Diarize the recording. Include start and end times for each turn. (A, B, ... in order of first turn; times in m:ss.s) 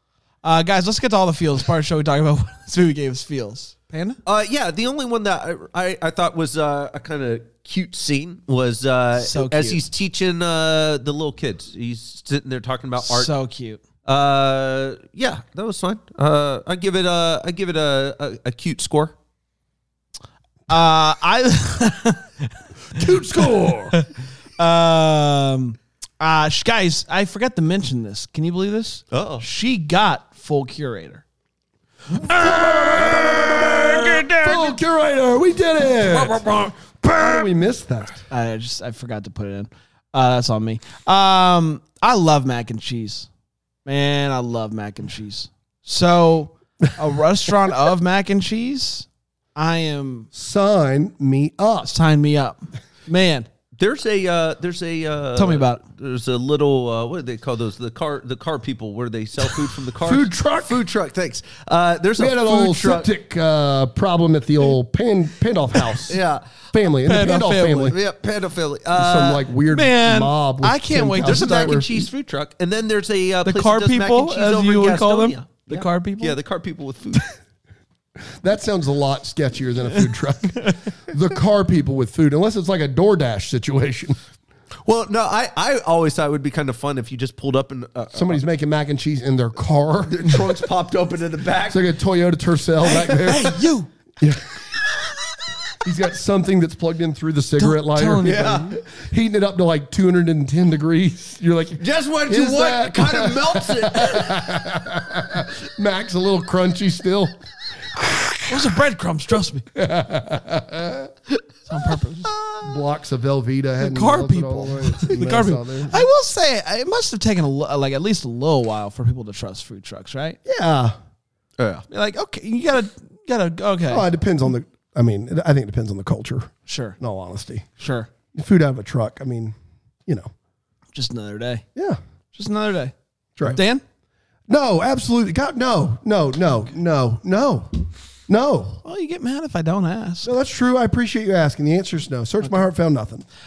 0:00.4-0:04.2 A
0:04.2-0:13.3 B
0:09.2-0:09.8 A
0:13.0-0:13.8 A
0:14.0-0:19.1 B
0:20.7-0:23.0 A
0:22.9-0:24.0 C
0:24.6-0:31.2 A
0:29.1-0:29.4 B
0:32.1-0:34.6 A
0:32.2-0:38.2 C
0:36.0-0:37.3 B
0:38.3-0:43.3 A
0:43.8-0:50.3 A
0:50.3-0:51.9 C
0:51.8-0:53.5 A
0:53.8-1:03.1 B
0:55.3-0:55.8 A
1:00.0-1:00.8 C
1:02.2-1:06.2 C
1:06.0-1:06.6 B
1:06.7-1:08.0 C
1:07.0-1:07.9 A
1:07.9-1:09.4 B
1:08.9-1:12.1 C
1:09.7-1:11.8 A
1:11.2-1:17.3 B
1:13.4-1:16.4 A
1:18.4-1:24.2 C
1:24.8-1:28.4 B
1:28.1-1:30.7 C
1:30.1-1:31.8 B
1:31.7-1:33.6 C
1:32.8-1:33.9 A
1:35.8-1:47.4 C
1:37.6-1:38.6 A
1:38.2-1:38.8 B
1:41.8-1:44.4 B
1:47.9-1:48.6 C
1:48.5-1:49.6 A
1:49.7-1:51.1 C
1:51.7-1:52.3 A
1:52.2-1:52.7 B
1:52.6-1:56.0 C
1:53.8-2:00.4 A
2:00.4-2:01.0 C
2:01.6-2:01.8 B
2:01.9-2:04.1 A
2:03.9-2:07.7 C
2:06.7-2:07.0 A
2:07.8-2:08.1 A
2:08.3-2:09.6 C
2:10.9-2:11.6 A
2:12.3-2:13.8 A
2:14.5-2:17.7 C
2:18.3-2:18.8 C
2:18.8-2:20.3 A
2:20.2-2:23.2 C